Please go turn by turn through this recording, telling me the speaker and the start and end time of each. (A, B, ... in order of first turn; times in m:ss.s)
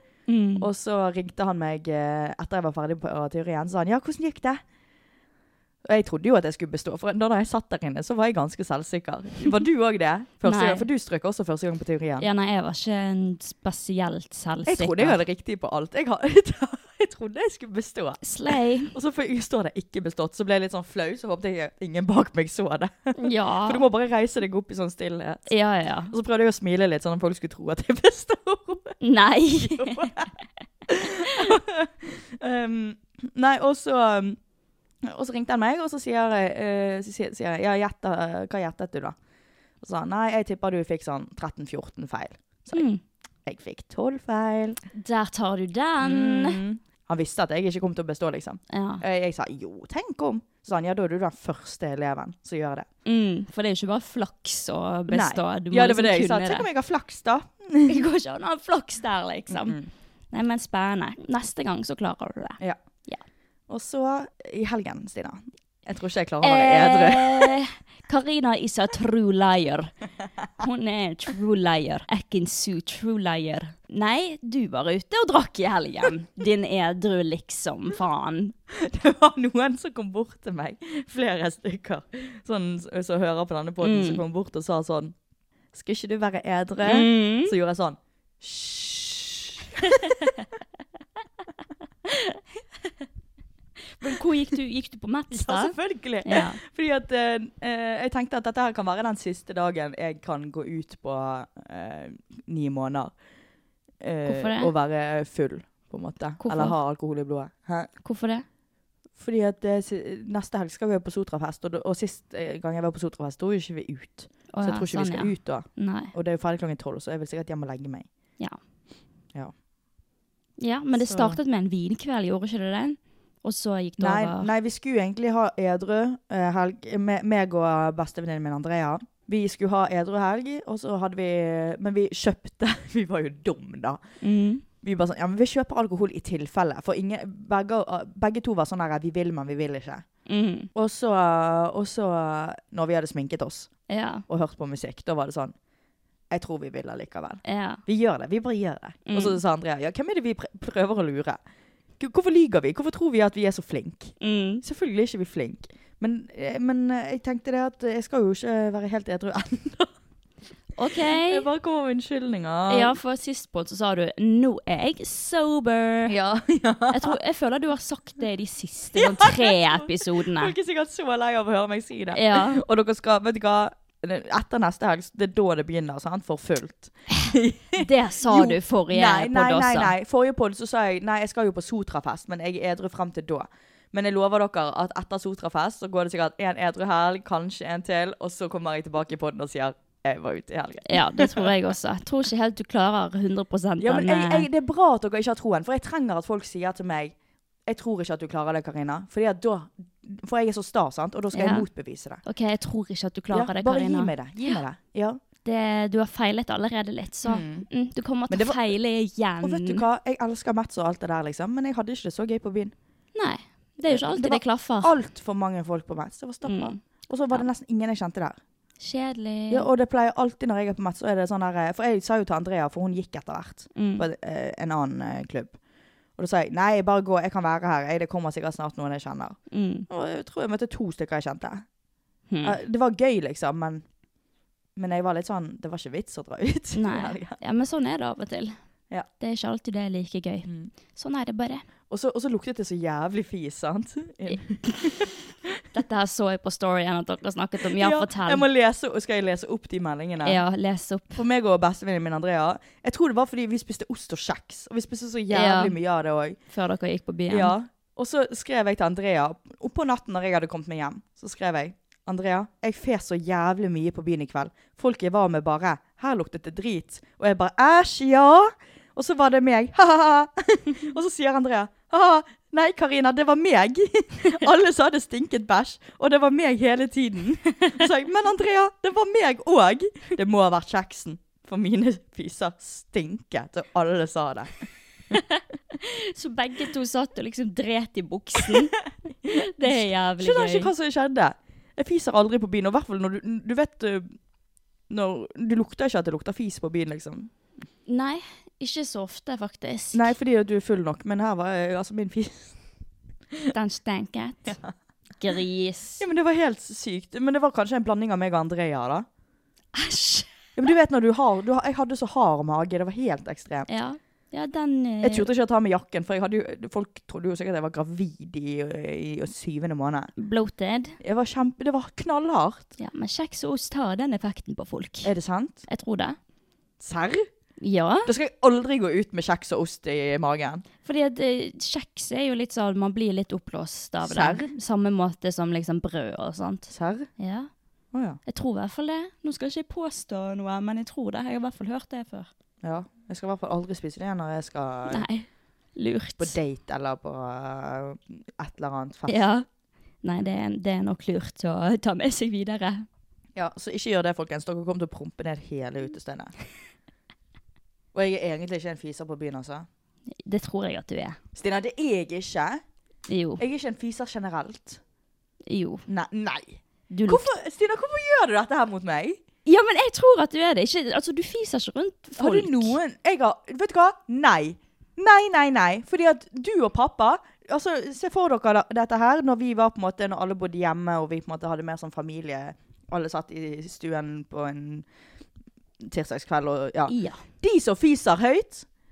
0:00.3-0:00.7 A
0:00.6-0:04.6 B
0:05.8-0:12.3 B
0:10.4-0:10.8 A
0:12.2-0:15.2 A
0:14.6-0:25.5 B
0:18.2-0:19.0 A
0:23.2-0:23.8 A
0:25.5-0:26.1 A
0:26.1-0:29.0 B
0:29.0-0:30.0 A
0:29.6-0:30.3 B
0:30.9-0:34.4 B
0:35.0-0:39.2 B
0:39.8-0:42.8 B
0:42.7-0:43.0 A
0:43.4-0:44.8 B
0:44.9-0:46.6 A
0:46.0-0:52.9 B
0:48.7-0:49.0 A
0:53.0-0:56.6 A
0:55.1-0:58.0 B
0:57.9-0:59.8 A
0:59.5-0:59.9 B
1:00.3-1:03.2 A
1:03.7-1:07.5 B
1:06.4-1:09.9 A
1:10.6-1:18.5 A
1:18.8-1:25.1 B
1:23.8-1:24.2 A
1:25.7-1:30.1 B
1:26.8-1:27.5 A
1:32.1-1:32.4 A
1:34.0-1:36.6 A
1:35.3-1:43.1 B
1:44.0-1:47.9 B
1:44.3-1:44.7 A
1:46.4-1:46.8 A
1:48.0-1:48.4 A
1:49.2-1:58.1 B
1:54.5-1:56.1 A
2:00.6-2:04.5 A
2:01.0-2:01.4 B
2:04.0-2:14.0 B
2:14.2-2:14.6 A
2:14.8-2:20.0 B
2:20.3-2:20.7 A
2:20.7-2:23.7 B
2:23.9-2:24.2 A
2:24.3-2:25.5 B
2:26.3-2:31.4 B
2:27.4-2:27.8 A
2:29.1-2:29.4 A
2:32.0-2:39.9 B
2:34.2-2:34.6 A
2:40.8-2:41.5 A
2:40.9-2:43.0 B
2:42.7-2:46.1 A
2:46.1-2:47.2 B
2:46.9-2:50.5 A
2:49.0-3:11.5 B
2:52.1-2:52.6 A
2:57.8-2:59.9 A
3:10.9-3:14.5 A
3:13.8-3:17.1 B
3:17.6-3:22.2 B
3:21.3-3:21.7 A
3:22.2-3:24.6 A
3:23.3-3:25.2 B
3:25.4-3:29.8 A
3:27.2-3:27.7 B
3:28.3-3:28.6 B
3:29.4-3:32.7 B
3:33.1-3:34.9 A
3:33.8-3:38.4 B
3:36.4-3:36.8 A
3:38.8-3:39.7 A
3:39.5-3:45.6 B
3:43.7-3:44.0 A
3:46.2-3:51.6 B
3:49.5-3:49.8 A
3:52.3-3:52.6 A
3:52.4-3:53.8 B
3:54.8-3:57.4 B
3:56.7-3:58.6 A
3:59.2-4:01.6 A
4:00.4-4:00.7 B
4:01.9-4:05.1 B
4:05.7-4:08.4 A
4:07.8-4:10.4 B
4:10.2-4:11.2 A
4:11.1-4:16.4 B
4:15.3-4:15.7 A
4:16.5-4:17.5 A
4:17.3-4:44.6 B
4:45.1-4:45.4 A
4:46.1-4:48.7 A
4:49.3-4:50.7 A
4:49.6-4:54.1 B
4:54.9-4:57.3 B
4:57.9-5:00.1 A
4:59.9-5:02.5 B
5:03.5-5:04.6 A
5:05.2-5:06.0 A
5:06.0-5:09.0 B
5:09.7-5:10.3 A
5:10.6-5:13.7 B
5:13.7-5:15.3 A
5:15.0-5:20.1 B
5:20.2-5:21.0 A
5:21.0-5:22.7 B
5:22.8-5:25.1 A
5:25.0-5:25.6 B
5:25.7-5:26.2 A
5:26.8-5:27.3 B
5:27.6-5:28.1 A
5:28.0-5:30.6 B
5:30.8-5:37.5 A
5:34.0-5:34.5 B
5:36.7-5:37.1 B
5:37.9-5:38.2 B
5:38.2-5:42.3 A
5:42.6-5:45.1 B
5:44.9-5:46.4 A
5:46.2-5:49.2 B
5:49.1-5:49.4 A
5:50.0-5:52.8 A
5:53.3-5:56.3 B
5:57.9-5:59.7 B
6:00.2-6:01.2 A
6:01.3-6:02.6 B
6:03.1-6:03.4 A
6:03.4-6:04.8 B
6:05.5-6:05.8 A
6:05.9-6:09.2 B
6:06.9-6:07.3 A
6:09.4-6:12.8 A
6:12.2-6:24.8 B
6:25.8-6:28.6 B
6:26.9-6:27.2 A